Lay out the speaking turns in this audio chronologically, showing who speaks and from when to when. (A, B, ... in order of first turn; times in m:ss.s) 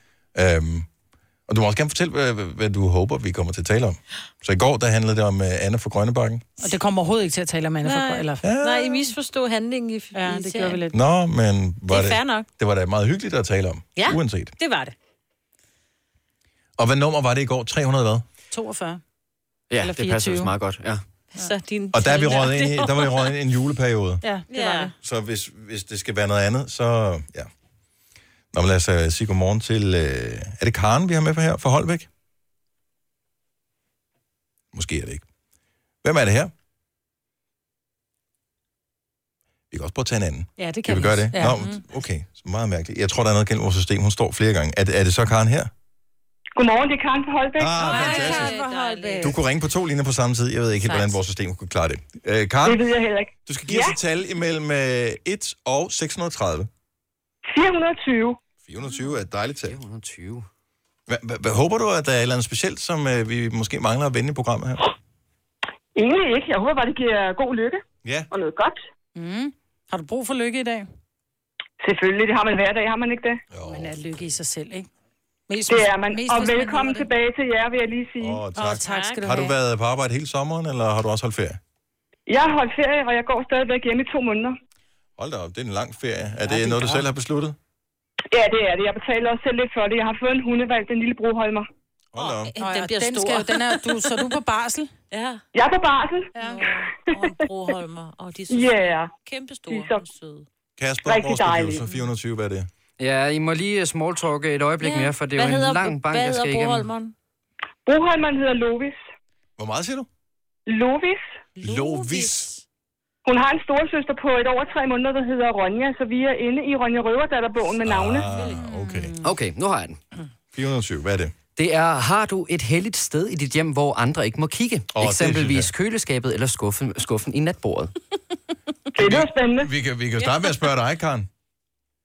0:00.4-0:00.9 A
0:01.5-0:06.5 A
0:06.6-0:08.4 B
0:07.8-0:10.8 C
0:08.4-0:09.0 A
0:10.1-0:11.0 B
0:10.9-0:14.5 A
0:11.9-0:12.5 C
0:14.6-0:14.9 B
0:16.8-0:18.2 A
0:18.5-0:19.0 B
0:19.7-0:21.0 D
0:19.8-0:20.6 B
0:21.4-0:23.3 C
0:21.9-0:24.2 A
0:24.2-0:24.9 B
0:24.5-0:24.9 C
0:25.0-0:27.5 A
0:28.5-0:32.1 A
0:34.7-0:35.2 A
0:36.0-0:36.5 A
0:39.7-0:45.7 A
0:40.6-0:41.8 B
0:46.6-0:47.8 E
0:47.6-0:48.6 A
0:47.8-0:49.4 B
0:47.8-0:49.4 C
0:49.2-0:52.8 A
0:50.8-0:51.2 C
0:52.6-0:54.0 E
0:53.5-0:56.7 A
0:57.5-0:58.4 E
0:58.6-0:59.8 A
0:59.7-1:00.5 D
1:01.1-1:04.8 A
1:06.0-1:08.8 E
1:08.0-1:08.3 A
1:09.2-1:10.9 B
1:11.8-1:13.4 E
1:13.5-1:14.0 A
1:13.7-1:14.9 B
1:15.5-1:17.1 B
1:15.7-1:18.4 E
1:18.2-1:21.6 A
1:18.6-1:19.5 B
1:18.6-1:19.2 C
1:22.3-1:24.6 E
1:25.2-1:27.6 A
1:26.5-1:27.0 B
1:28.3-1:31.7 E
1:32.1-1:32.5 A
1:32.2-1:34.2 C
1:32.6-1:34.9 B
1:35.1-1:35.4 C
1:35.6-1:36.3 E
1:36.3-1:36.8 B
1:36.4-1:40.5 C
1:38.5-1:39.1 E
1:39.7-1:40.0 E
1:40.8-1:42.7 A
1:41.0-1:41.8 E
1:43.0-1:46.9 D
1:44.8-1:47.1 C
1:47.9-1:49.0 E
1:49.6-1:50.1 A
1:50.7-1:51.2 E
1:51.6-1:52.6 C
1:51.6-1:52.5 A
1:53.2-1:58.3 E
1:57.8-1:59.1 A
1:58.4-1:58.8 C
1:58.6-1:58.9 B
1:59.2-2:00.0 D
2:00.5-2:01.4 A
2:01.6-2:07.9 D
2:04.9-2:05.7 A
2:09.0-2:09.7 E
2:09.0-2:11.3 A